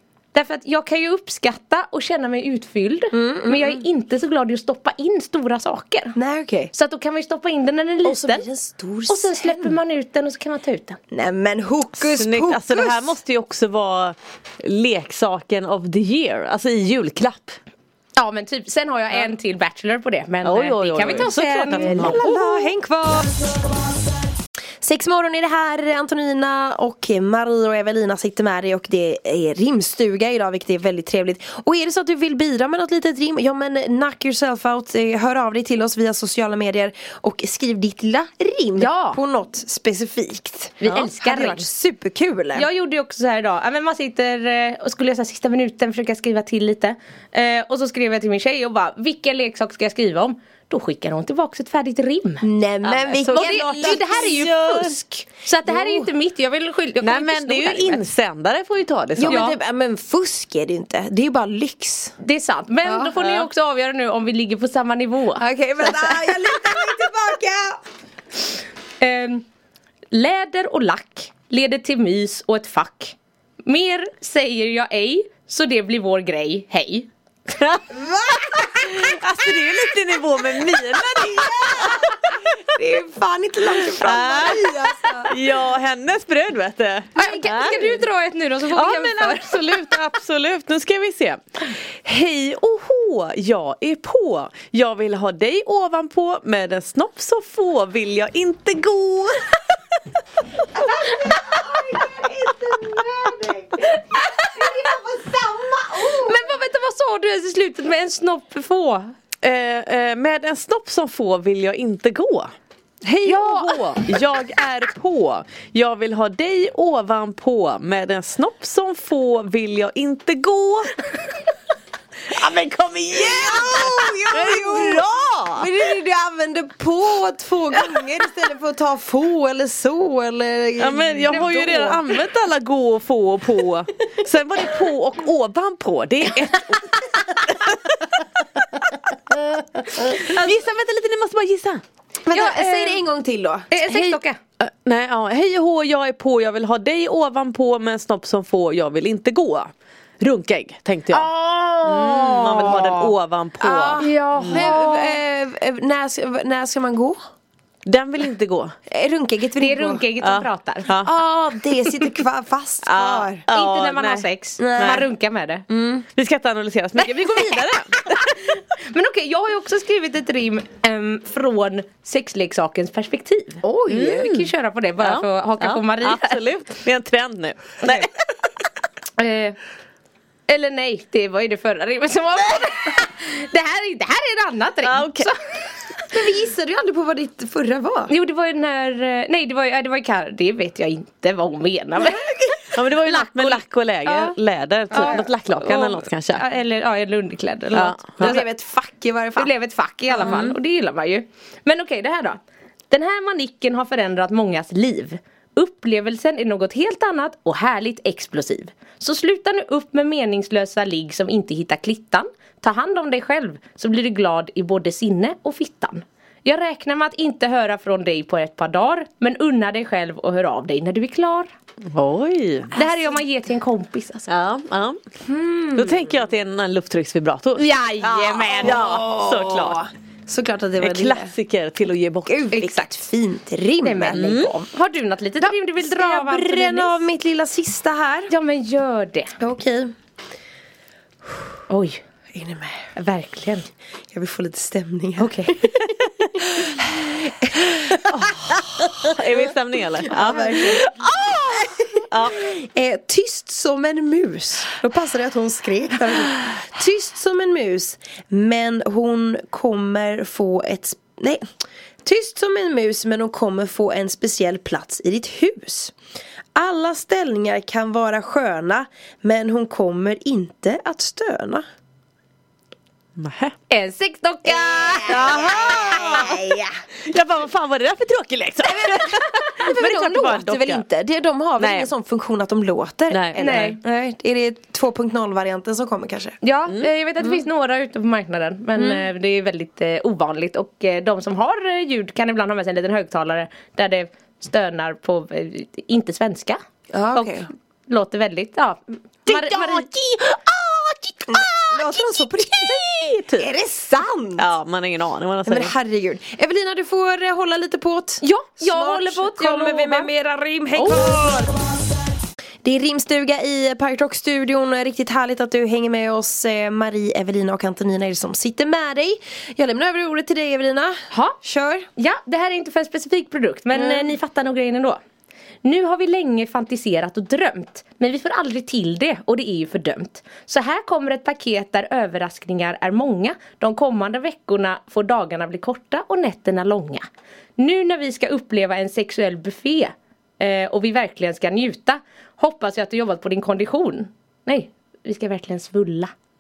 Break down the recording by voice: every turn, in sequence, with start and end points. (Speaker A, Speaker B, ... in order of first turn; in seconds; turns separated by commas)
Speaker A: 0.3-6.2, Speaker B: 3.1-3.9, Speaker B: 6.2-6.7, Speaker A: 6.7-8.5, Speaker B: 8.0-9.8, Speaker A: 9.1-11.0, Speaker B: 11.1-13.2, Speaker C: 12.0-17.6, Speaker A: 18.2-22.7, Speaker C: 20.4-22.3, Speaker B: 21.7-23.3, Speaker B: 24.8-42.7, Speaker A: 38.8-39.2, Speaker A: 40.8-41.7, Speaker A: 42.5-52.5, Speaker B: 52.4-54.5, Speaker C: 52.8-55.0, Speaker A: 53.3-58.0, Speaker B: 55.6-56.1, Speaker C: 57.0-59.5, Speaker B: 59.2-62.2, Speaker A: 59.3-59.6, Speaker A: 62.2-65.4, Speaker B: 62.9-63.1, Speaker C: 63.2-63.5, Speaker B: 65.4-67.8, Speaker A: 69.0-69.5, Speaker A: 70.1-77.1, Speaker B: 77.9-79.2, Speaker C: 78.8-82.3, Speaker B: 81.2-85.4, Speaker C: 83.9-88.0, Speaker B: 87.2-88.0, Speaker A: 87.2-89.8, Speaker C: 88.7-99.4, Speaker B: 100.8-106.5, Speaker A: 104.1-104.7, Speaker A: 106.2-109.1, Speaker C: 109.4-112.5, Speaker C: 113.1-121.0, Speaker A: 113.2-113.7, Speaker C: 122.3-125.7, Speaker B: 123.2-125.1, Speaker B: 125.6-132.1, Speaker C: 130.8-138.0, Speaker C: 139.9-141.8, Speaker B: 142.3-144.2, Speaker A: 142.3-143.0, Speaker A: 143.7-144.4, Speaker C: 144.6-151.3, Speaker B: 151.1-157.2, Speaker C: 151.8-155.2, Speaker A: 152.4-152.8, Speaker A: 154.0-154.7, Speaker C: 157.9-158.8, Speaker B: 158.9-160.1, Speaker A: 159.6-160.9, Speaker C: 160.2-161.1, Speaker B: 160.9-163.4, Speaker C: 162.8-165.1, Speaker A: 163.5-165.7, Speaker B: 164.6-165.1, Speaker B: 165.7-166.1, Speaker C: 166.2-168.4, Speaker A: 167.3-167.7, Speaker A: 168.5-173.6, Speaker B: 173.6-174.4, Speaker C: 173.9-178.1, Speaker A: 174.2-176.4, Speaker A: 179.2-179.6, Speaker A: 180.5-185.3, Speaker C: 184.8-185.3, Speaker B: 186.1-188.1, Speaker A: 188.1-194.3, Speaker B: 192.0-192.6, Speaker C: 192.7-196.4, Speaker B: 194.9-195.2, Speaker A: 194.9-198.5, Speaker C: 197.7-198.4, Speaker B: 198.2-199.5, Speaker A: 199.4-221.5, Speaker B: 200.1-200.5, Speaker C: 200.2-200.5, Speaker C: 221.9-222.8, Speaker A: 222.7-224.3, Speaker B: 222.8-223.1, Speaker C: 224.3-225.0, Speaker B: 225.3-226.0, Speaker C: 225.7-227.7, Speaker A: 227.6-228.9, Speaker B: 228.0-231.3, Speaker C: 228.6-229.9, Speaker C: 230.8-232.4, Speaker B: 232.3-234.2, Speaker A: 232.5-233.1, Speaker A: 233.8-237.1, Speaker C: 234.1-234.5, Speaker B: 235.4-238.3, Speaker A: 238.3-239.3, Speaker B: 239.4-239.9, Speaker A: 241.7-242.0, Speaker B: 242.3-242.9, Speaker A: 243.0-243.7, Speaker B: 244.1-249.4, Speaker A: 245.2-245.6, Speaker C: 248.0-250.8, Speaker B: 250.1-261.4, Speaker C: 252.1-252.4, Speaker B: 262.1-265.9, Speaker B: 266.6-271.6, Speaker C: 273.2-273.6, Speaker A: 273.7-275.5, Speaker B: 274.4-276.7, Speaker C: 275.1-276.5, Speaker C: 277.1-280.9, Speaker B: 278.6-286.4, Speaker C: 281.6-281.9, Speaker C: 283.1-283.7, Speaker A: 283.4-283.8, Speaker A: 286.4-296.6, Speaker B: 288.8-289.1, Speaker B: 296.9-297.5, Speaker A: 297.1-300.0, Speaker C: 299.3-303.5, Speaker B: 301.3-302.8, Speaker B: 303.4-304.5, Speaker C: 304.4-305.7, Speaker B: 305.5-311.5, Speaker A: 308.2-310.1, Speaker A: 310.8-311.2, Speaker B: 312.6-321.9, Speaker A: 321.1-321.4, Speaker A: 322.0-325.0, Speaker B: 323.7-324.1, Speaker A: 325.6-337.1, Speaker A: 337.6-346.1